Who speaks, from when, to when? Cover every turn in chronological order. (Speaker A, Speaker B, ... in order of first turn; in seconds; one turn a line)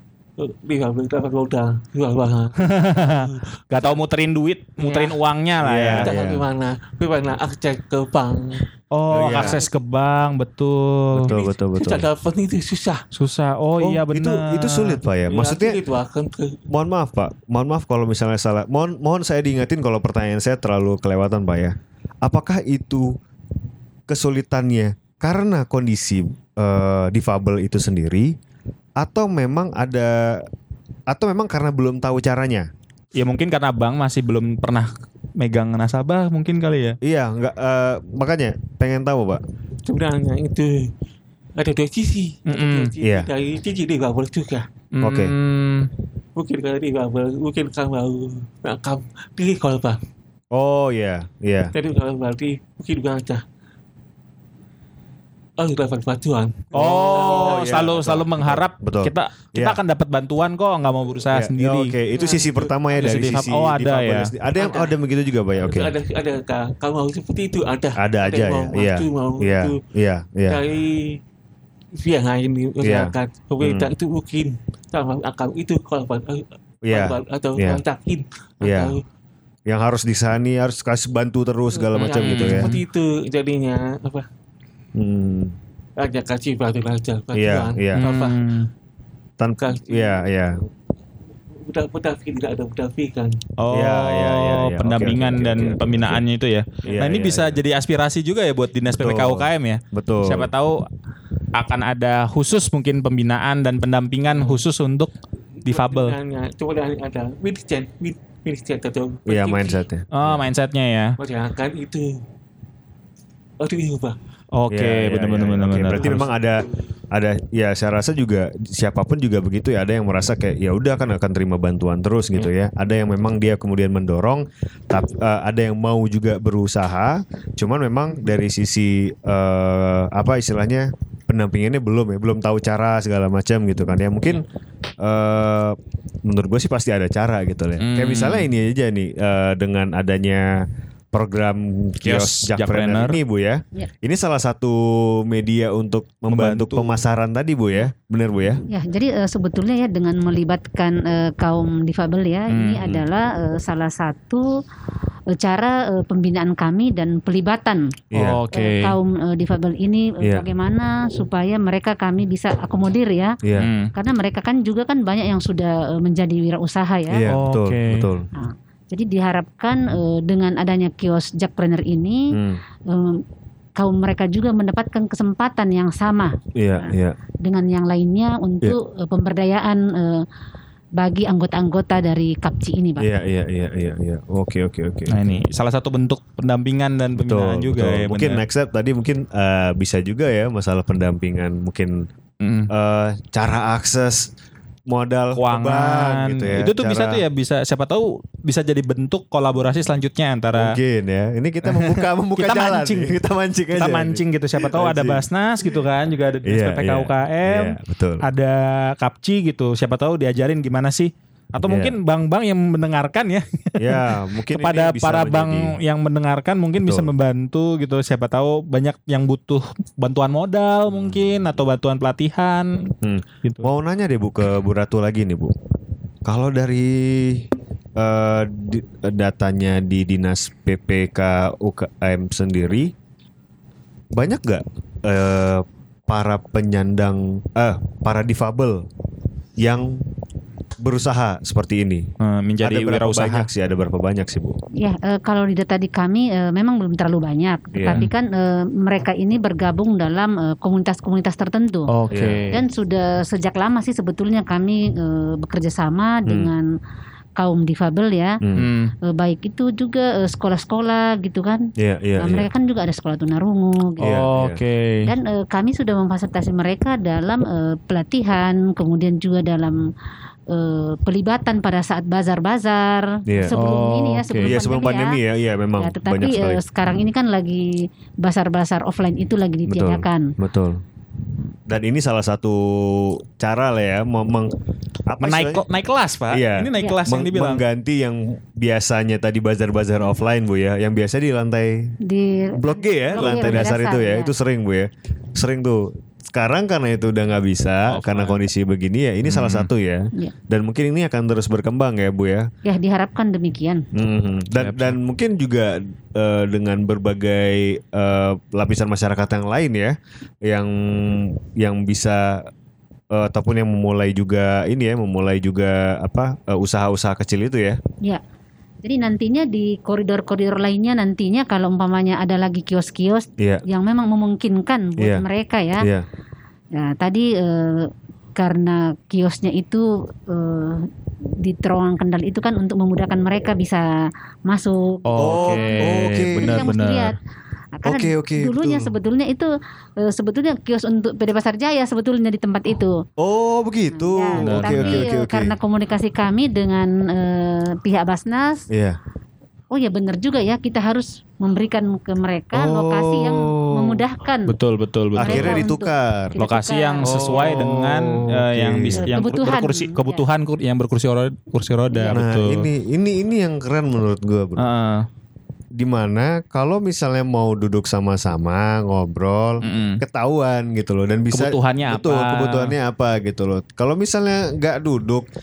Speaker A: 0.4-4.0
Speaker B: 2.7-3.1
Speaker B: 3.7-6.1
Speaker A: 4.8-5.1
Speaker C: 5.6-6.4
Speaker A: 6.0-8.6
Speaker B: 8.9-11.3
Speaker C: 9.1-9.6
Speaker A: 9.3-9.7
Speaker C: 11.1-12.1
Speaker A: 11.3-13.0
Speaker B: 13.1-15.0
Speaker C: 13.8-15.8
Speaker A: 15.2-16.6
Speaker C: 16.7-23.1
Speaker C: 24.1-28.3
Speaker C: 29.0-30.5
Speaker C: 31.1-32.7
Speaker B: 33.1-37.0
Speaker C: 37.0-39.4
Speaker A: 39.9-40.9
Speaker A: 41.6-44.7
Speaker B: 42.5-42.9
Speaker C: 43.0-43.3
Speaker B: 44.9-45.9
Speaker C: 45.0-45.3
Speaker A: 46.4-50.0
Speaker C: 50.5-51.7
Speaker A: 51.7-53.4
Speaker A: 55.6-57.8
Speaker C: 56.7-59.8
Speaker B: 56.7-61.9
Speaker C: 61.3-65.9
Speaker A: 62.1-63.2
Speaker B: 63.0-64.3
Speaker A: 64.5-65.0
Speaker A: 65.6-69.8
Speaker C: 68.0-70.6
Speaker A: 70.5-71.2
Speaker A: 72.0-79.0
Speaker C: 72.8-73.9
Speaker C: 76.9-77.8
Speaker C: 78.6-79.0
Speaker C: 79.7-82.7
Speaker A: 81.7-84.3
Speaker B: 82.0-82.8
Speaker C: 84.9-85.5
Speaker A: 86.0-88.4
Speaker C: 87.3-88.0
Speaker B: 88.0-88.7
Speaker C: 89.4-90.6
Speaker A: 89.6-90.2
Speaker A: 91.6-93.4
Speaker B: 93.6-100.8
Speaker C: 93.7-96.2
Speaker C: 96.9-97.6
Speaker C: 98.9-100.5
Speaker B: 101.5-105.1
Speaker A: 104.3-104.6
Speaker A: 105.6-109.8
Speaker B: 105.6-106.1
Speaker C: 109.3-110.5
Speaker B: 110.1-111.2
Speaker A: 111.2-112.2
Speaker A: 113.6-114.2
Speaker B: 114.5-116.2
Speaker C: 114.7-134.4
Speaker C: 135.0-148.6
Speaker B: 137.8-138.5
Speaker B: 142.0-143.2
Speaker B: 146.3-147.0
Speaker D: 148.7-154.5
Speaker B: 152.5-153.0
Speaker D: 155.3-157.9
Speaker C: 158.1-158.4
Speaker B: 158.1-158.9
Speaker D: 158.5-163.4
Speaker C: 160.2-160.5
Speaker C: 163.4-163.7
Speaker B: 163.6-163.9
Speaker D: 163.9-167.2
Speaker C: 167.1-168.3
Speaker B: 167.3-168.1
Speaker D: 168.4-172.3
Speaker C: 172.3-172.6
Speaker D: 172.9-173.2
Speaker D: 173.8-176.9
Speaker C: 176.5-177.2
Speaker D: 177.4-180.2
Speaker D: 181.0-183.1
Speaker C: 183.0-185.4
Speaker B: 185.1-188.4
Speaker C: 187.2-192.1
Speaker B: 192.4-192.7
Speaker C: 192.7-194.3
Speaker C: 194.9-197.2
Speaker B: 195.3-200.8
Speaker C: 200.5-205.2
Speaker B: 201.6-203.2
Speaker B: 203.7-222.9
Speaker C: 206.4-208.2
Speaker C: 211.7-211.9
Speaker C: 213.8-215.7
Speaker C: 216.8-217.1
Speaker C: 220.9-221.3
Speaker C: 223.0-225.5
Speaker C: 226.2-232.9
Speaker C: 234.1-238.8
Speaker C: 239.6-240.0
Speaker C: 240.8-242.1
Speaker B: 242.2-243.5
Speaker C: 242.6-244.6
Speaker D: 244.8-251.9
Speaker C: 247.7-248.0
Speaker B: 251.9-252.6
Speaker C: 252.1-252.5
Speaker D: 252.5-256.6
Speaker D: 257.4-258.4
Speaker C: 258.4-258.7
Speaker B: 258.5-258.9
Speaker D: 259.1-261.6
Speaker C: 261.8-262.5
Speaker D: 262.2-264.1
Speaker B: 264.0-265.1
Speaker C: 264.0-264.6
Speaker D: 265.1-269.8
Speaker D: 270.5-275.2
Speaker C: 273.3-273.5
Speaker B: 273.4-274.5
Speaker C: 274.4-276.6
Speaker D: 275.8-280.3
Speaker C: 279.7-280.8
Speaker C: 281.7-284.6
Speaker C: 285.1-285.6
Speaker B: 285.2-287.6
Speaker C: 286.3-291.9
Speaker D: 292.1-292.6
Speaker C: 292.6-302.5
Speaker D: 293.1-294.3
Speaker B: 293.2-293.6
Speaker B: 297.9-298.4
Speaker B: 299.2-299.7
Speaker D: 302.6-303.8
Speaker C: 303.9-312.5
Speaker B: 304.6-305.0
Speaker C: 313.1-317.8
Speaker D: 318.8-325.9
Speaker C: 325.0-325.2
Speaker C: 325.8-326.0
Speaker D: 326.7-330.9
Speaker D: 331.4-333.8
Speaker D: 334.5-337.1
Speaker B: 335.1-337.1
Speaker C: 335.2-336.7
Speaker D: 337.8-339.5
Speaker C: 337.8-338.9
Speaker D: 340.0-343.0
Speaker C: 343.2-345.5
Speaker D: 343.9-348.7
Speaker B: 344.4-345.0
Speaker C: 348.7-349.0
Speaker D: 349.7-354.6
Speaker C: 352.5-354.0
Speaker B: 354.5-355.6
Speaker C: 355.2-356.4
Speaker D: 355.2-357.7
Speaker B: 356.4-362.7
Speaker C: 357.0-359.2
Speaker D: 359.0-360.2
Speaker D: 361.9-362.2
Speaker C: 362.1-364.6
Speaker B: 364.6-365.1
Speaker C: 365.7-375.3
Speaker B: 369.6-370.0
Speaker B: 371.3-372.7